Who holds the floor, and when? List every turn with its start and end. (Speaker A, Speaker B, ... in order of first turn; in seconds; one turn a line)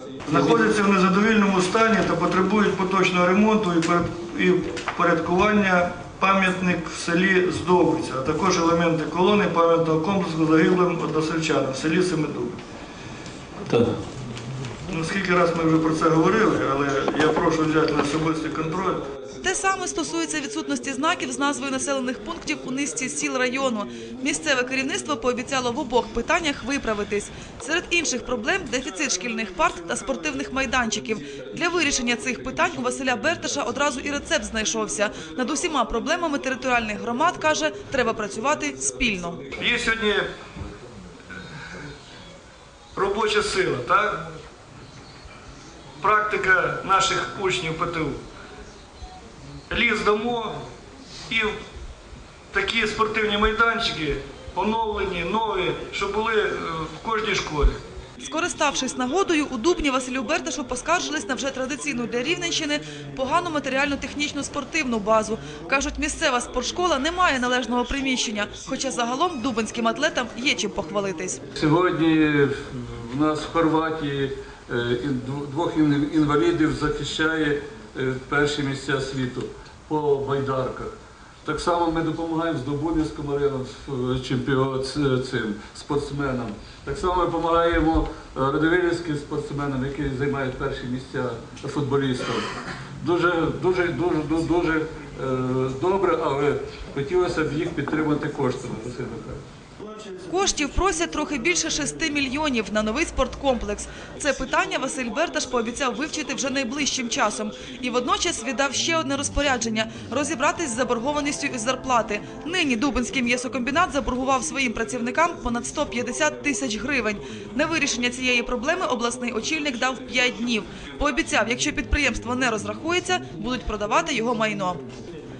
Speaker A: 0.3-12.6
Speaker B: 13.7-14.0
Speaker A: 14.9-19.1
Speaker C: 19.4-39.4
Speaker A: 39.5-40.3
Speaker A: 42.9-44.2
Speaker A: 46.0-48.2
Speaker A: 49.7-50.6
Speaker A: 51.3-51.5
Speaker A: 52.5-57.8
Speaker C: 58.2-71.4
Speaker B: 71.5-92.5
Speaker B: 93.0-99.4
Speaker A: 99.8-100.7
Speaker C: 100.3-124.8